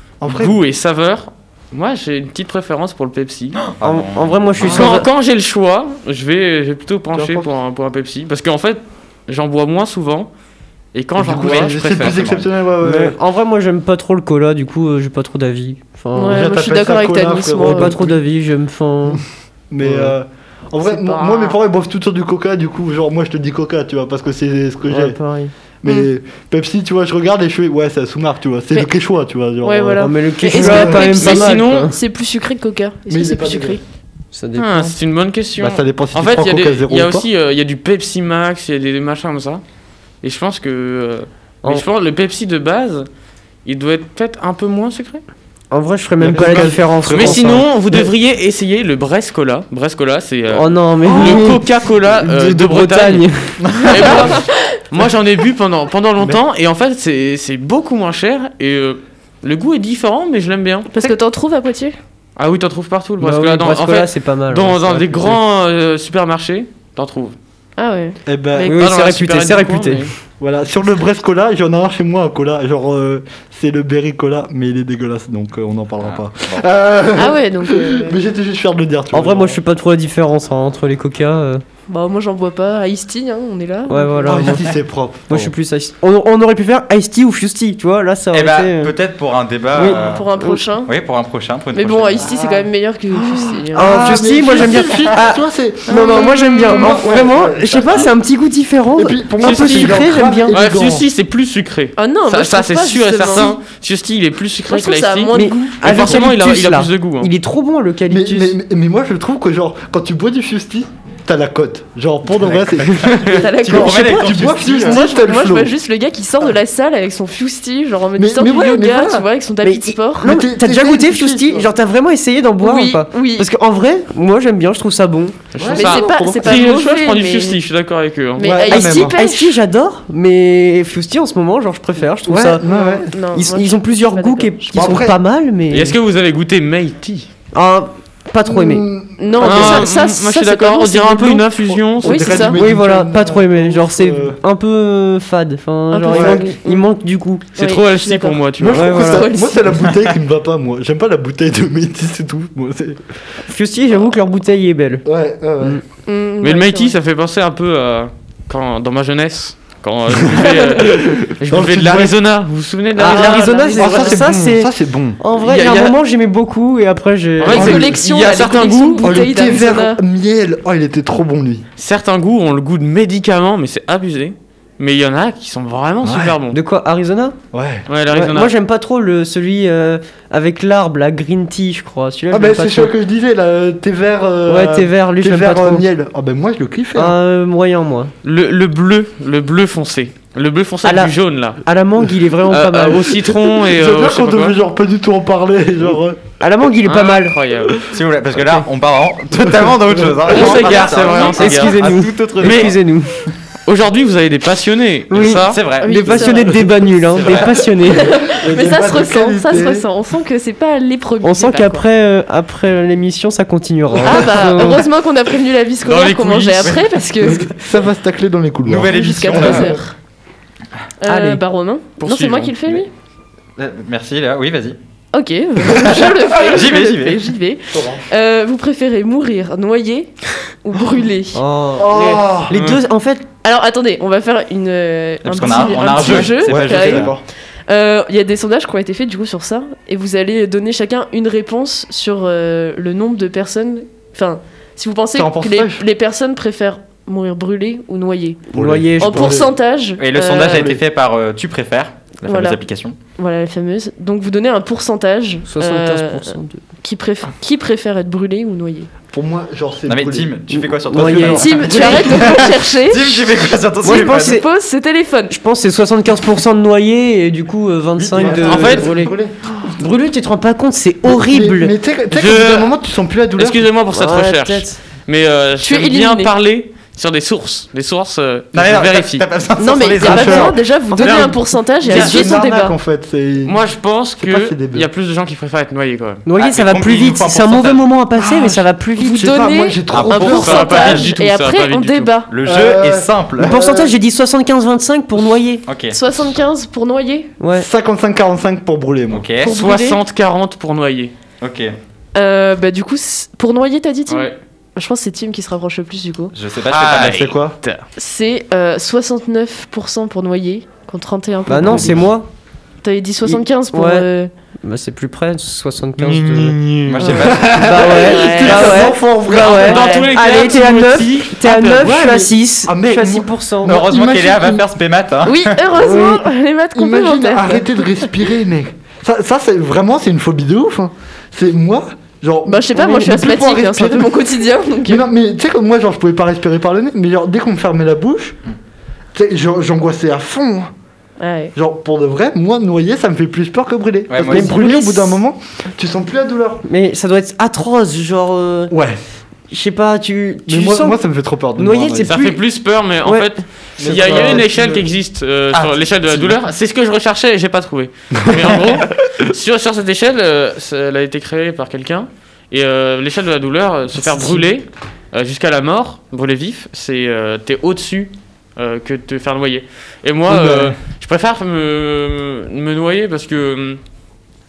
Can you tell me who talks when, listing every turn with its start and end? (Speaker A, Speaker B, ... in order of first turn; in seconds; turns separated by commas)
Speaker A: 0.2-0.6, Speaker B: 0.2-3.6, Speaker C: 3.7-5.0, Speaker D: 3.8-5.1, Speaker B: 4.6-10.3, Speaker A: 7.1-7.5, Speaker B: 10.9-12.2, Speaker A: 11.2-13.2, Speaker C: 11.4-12.5, Speaker D: 12.8-16.4, Speaker E: 16.1-18.0, Speaker A: 16.2-18.2, Speaker D: 17.6-19.2, Speaker A: 19.1-25.2, Speaker D: 19.8-20.2, Speaker E: 20.8-21.6, Speaker D: 24.9-25.5, Speaker A: 25.8-31.1, Speaker E: 29.6-33.8, Speaker D: 30.0-32.0, Speaker B: 31.0-31.9, Speaker A: 33.1-33.8, Speaker D: 34.3-34.9, Speaker B: 34.5-39.6, Speaker A: 35.6-37.3, Speaker B: 40.2-43.1, Speaker B: 43.6-45.2, Speaker D: 45.7-47.7, Speaker A: 46.2-48.1, Speaker B: 46.3-60.9, Speaker D: 50.5-53.6, Speaker C: 53.7-54.0, Speaker E: 54.0-54.6, Speaker E: 60.9-62.0, Speaker B: 62.4-67.3, Speaker D: 63.2-65.4, Speaker E: 67.8-68.8, Speaker A: 68.2-68.8, Speaker D: 68.6-70.1, Speaker B: 68.7-70.1, Speaker A: 70.4-79.6, Speaker C: 76.0-76.6, Speaker E: 77.1-78.2, Speaker D: 79.1-81.6, Speaker E: 81.9-84.6, Speaker D: 83.9-84.7, Speaker A: 84.2-85.5, Speaker D: 85.3-88.9, Speaker C: 88.3-90.3, Speaker D: 89.7-90.6, Speaker E: 89.8-90.9, Speaker C: 90.8-92.5, Speaker E: 91.7-94.2, Speaker A: 92.3-92.6, Speaker A: 93.2-98.1, Speaker D: 93.7-100.6, Speaker E: 95.9-97.2, Speaker A: 98.9-101.0, Speaker B: 99.4-107.3, Speaker E: 102.0-103.6, Speaker E: 104.7-106.2, Speaker D: 105.3-108.5, Speaker A: 108.1-115.7, Speaker E: 113.3-120.3, Speaker C: 113.5-115.0, Speaker A: 118.2-119.2, Speaker D: 119.6-126.6, Speaker A: 120.2-121.7, Speaker E: 122.6-123.5, Speaker B: 125.5-128.5, Speaker A: 125.6-126.0, Speaker E: 125.7-127.6, Speaker E: 128.4-129.5, Speaker A: 128.4-129.2, Speaker D: 128.6-132.6, Speaker A: 132.3-133.1, Speaker E: 132.6-135.0, Speaker D: 133.3-136.0, Speaker A: 134.8-135.2, Speaker B: 135.7-137.3, Speaker D: 137.5-138.9, Speaker A: 138.4-139.7, Speaker E: 139.2-142.6, Speaker B: 139.4-142.5, Speaker D: 139.4-139.8, Speaker A: 141.9-144.4, Speaker D: 142.5-147.5, Speaker E: 145.9-146.9, Speaker A: 146.1-146.5, Speaker E: 147.6-149.6, Speaker B: 147.6-148.9, Speaker A: 148.6-153.0, Speaker D: 148.7-149.3, Speaker D: 153.5-155.1, Speaker A: 155.0-155.8, Speaker E: 156.1-156.9, Speaker B: 156.4-164.5, Speaker E: 160.3-160.8, Speaker A: 160.3-162.1, Speaker D: 163.0-167.9, Speaker E: 163.1-164.2, Speaker A: 163.8-165.2, Speaker B: 165.4-166.0, Speaker B: 167.4-169.2, Speaker E: 167.4-170.0, Speaker A: 167.5-167.9, Speaker A: 169.0-171.6, Speaker B: 171.8-176.6, Speaker A: 176.0-176.4, Speaker D: 176.5-177.4, Speaker A: 177.5-177.9, Speaker B: 177.9-178.5, Speaker D: 178.1-182.9, Speaker A: 182.3-187.1, Speaker D: 184.4-185.8, Speaker D: 186.9-188.1, Speaker B: 188.2-191.6, Speaker D: 190.8-193.2, Speaker B: 192.5-194.6, Speaker A: 193.5-196.2, Speaker D: 196.4-197.4, Speaker B: 196.8-197.8, Speaker C: 197.9-202.8, Speaker A: 200.1-200.3, Speaker B: 200.3-202.7, Speaker D: 200.5-203.2, Speaker B: 203.7-205.6, Speaker D: 205.1-208.2, Speaker C: 205.5-206.1, Speaker E: 205.8-206.7, Speaker A: 206.1-207.6, Speaker C: 207.1-207.6, Speaker E: 207.8-211.8, Speaker A: 208.4-209.8, Speaker D: 211.2-214.9, Speaker E: 214.0-217.5, Speaker B: 215.8-216.8, Speaker A: 217.2-219.8, Speaker C: 218.6-219.8, Speaker E: 218.8-219.9, Speaker E: 221.0-222.9, Speaker D: 221.1-221.4, Speaker B: 222.0-222.5, Speaker C: 223.6-224.8, Speaker E: 225.1-231.4, Speaker C: 225.7-227.3, Speaker A: 227.7-228.0, Speaker D: 231.3-233.3, Speaker A: 231.8-232.6, Speaker B: 232.5-232.8, Speaker E: 233.4-248.4, Speaker C: 235.2-237.1, Speaker A: 235.8-237.2, Speaker A: 245.1-245.8, Speaker D: 248.5-249.5, Speaker A: 248.5-249.5, Speaker E: 249.0-250.8, Speaker C: 250.0-253.0, Speaker A: 250.5-250.8, Speaker E: 252.2-252.6, Speaker E: 253.1-258.9, Speaker D: 255.5-256.6, Speaker A: 259.1-260.3, Speaker C: 259.9-264.4, Speaker D: 260.5-262.1, Speaker A: 261.0-262.1, Speaker E: 261.2-263.2, Speaker D: 263.8-264.5, Speaker E: 263.9-265.4, Speaker D: 265.3-269.1, Speaker A: 268.0-269.7, Speaker B: 268.4-269.0, Speaker D: 269.7-271.8, Speaker A: 271.1-273.6, Speaker B: 272.1-272.7, Speaker B: 273.4-279.2, Speaker D: 273.9-274.8, Speaker E: 275.6-276.3, Speaker C: 278.5-281.3, Speaker E: 279.6-282.8, Speaker A: 280.0-281.1, Speaker D: 280.9-282.5, Speaker A: 281.8-283.6, Speaker C: 281.9-282.2, Speaker B: 283.4-286.2, Speaker A: 284.2-284.9, Speaker D: 286.2-289.5, Speaker C: 286.4-287.9, Speaker A: 288.1-290.9, Speaker E: 289.0-292.3, Speaker C: 289.9-291.1, Speaker B: 290.3-292.1, Speaker C: 292.3-293.6, Speaker A: 292.4-293.9, Speaker D: 293.4-295.6, Speaker C: 295.6-296.0, Speaker E: 295.9-297.3, Speaker D: 297.4-297.7, Speaker A: 297.5-299.2, Speaker C: 299.1-299.6, Speaker E: 299.4-300.0, Speaker B: 299.5-301.1, Speaker C: 301.4-301.7, Speaker E: 302.1-306.3, Speaker B: 304.1-304.4, Speaker C: 306.3-307.2, Speaker B: 306.7-307.8, Speaker A: 306.8-307.6, Speaker E: 308.0-312.1, Speaker D: 311.5-312.3, Speaker E: 312.8-314.3, Speaker D: 313.2-314.1, Speaker D: 314.6-323.8, Speaker B: 316.0-317.2, Speaker C: 316.9-317.9, Speaker A: 317.0-319.6, Speaker E: 317.9-320.1, Speaker B: 319.2-322.2, Speaker A: 321.8-324.6, Speaker C: 323.6-325.7, Speaker E: 325.2-328.2, Speaker D: 325.8-326.3, Speaker A: 326.8-334.2, Speaker E: 332.4-335.1, Speaker A: 334.8-338.4, Speaker A: 339.1-340.7, Speaker E: 341.2-341.5, Speaker A: 341.5-346.6, Speaker C: 344.1-344.7, Speaker D: 344.2-345.2, Speaker D: 346.6-348.7, Speaker A: 348.7-349.0, Speaker D: 349.5-351.0, Speaker A: 350.5-352.1, Speaker D: 351.5-352.4, Speaker B: 352.0-373.8, Speaker D: 353.0-354.5, Speaker A: 353.8-354.9, Speaker C: 355.5-356.3, Speaker A: 358.2-358.9, Speaker D: 364.0-364.4, Speaker A: 370.3-370.7